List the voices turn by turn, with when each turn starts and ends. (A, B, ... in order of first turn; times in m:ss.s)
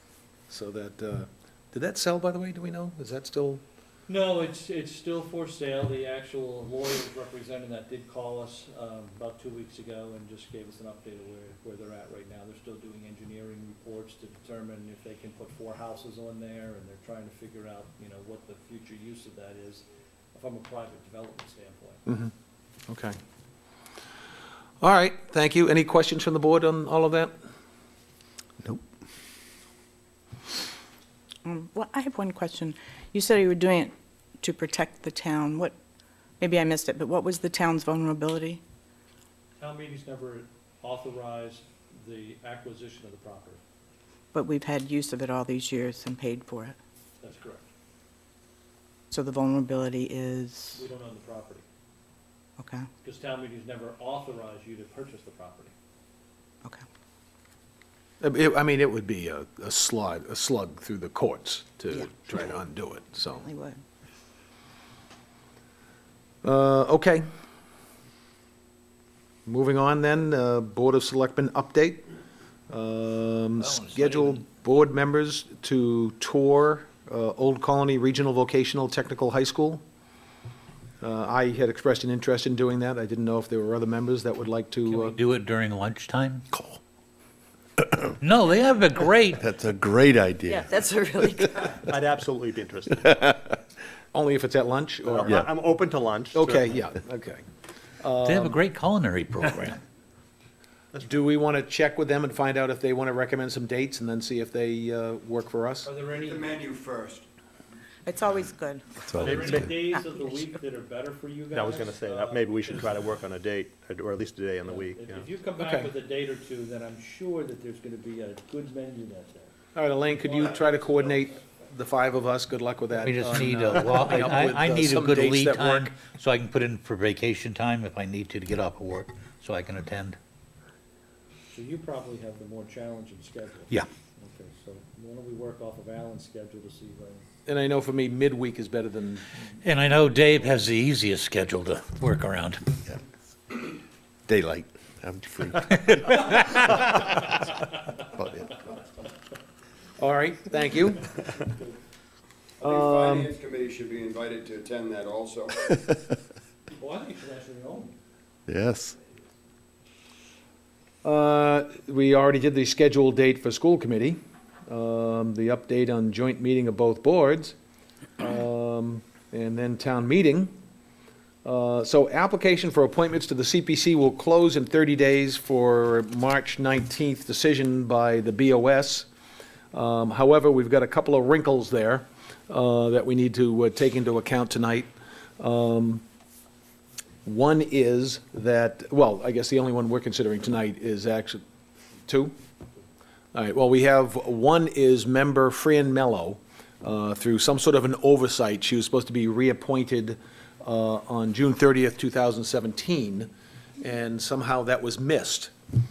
0:00.5-0:03.6 A
0:04.1-0:22.0 B
0:22.0-0:22.3 A
0:22.9-0:23.1 A
0:24.8-0:27.3 A
0:31.4-0:35.7 C
0:36.4-0:38.6 C
0:39.6-0:43.6 B
0:44.3-0:46.8 C
0:47.2-0:47.6 B
0:49.1-0:50.8 C
0:50.7-0:51.6 B
0:52.6-0:52.8 C
0:53.0-0:55.7 B
0:58.2-1:03.5 A
1:03.4-1:03.8 C
1:06.4-1:07.2 A
1:09.5-1:12.0 A
1:12.7-1:19.8 A
1:13.6-1:14.4 D
1:21.0-1:25.2 A
1:24.9-1:26.4 D
1:26.5-1:26.8 E
1:27.8-1:28.1 E
1:28.2-1:29.4 D
1:29.4-1:31.8 E
1:30.6-1:31.5 C
1:31.8-1:33.4 F
1:33.1-1:33.6 E
1:34.1-1:35.5 A
1:35.0-1:36.8 F
1:36.3-1:37.4 A
1:38.0-1:38.6 A
1:38.2-1:39.8 D
1:41.0-1:45.9 A
1:45.8-1:46.6 B
1:46.2-1:47.2 G
1:48.0-1:49.1 C
1:49.0-1:49.6 E
1:49.2-1:53.0 B
1:49.2-1:49.7 F
1:51.5-1:55.3 F
1:54.7-1:59.5 B
1:55.6-1:55.9 A
1:59.8-2:05.9 A
2:00.2-2:01.4 B
2:03.0-2:10.2 D
2:11.5-2:17.2 B
2:17.4-2:19.3 A
2:19.6-2:22.6 D
2:24.3-2:28.7 E
2:30.0-2:31.1 A
2:32.6-2:35.6 G
2:32.6-2:33.3 A
2:36.7-2:37.9 B
2:38.5-2:39.0 E
2:41.0-2:47.6 A
2:48.2-2:50.5 A
2:51.4-2:59.1 A
2:59.7-3:06.0 A
3:07.2-3:11.4 A
3:12.1-3:12.3 A
3:13.3-3:25.5 A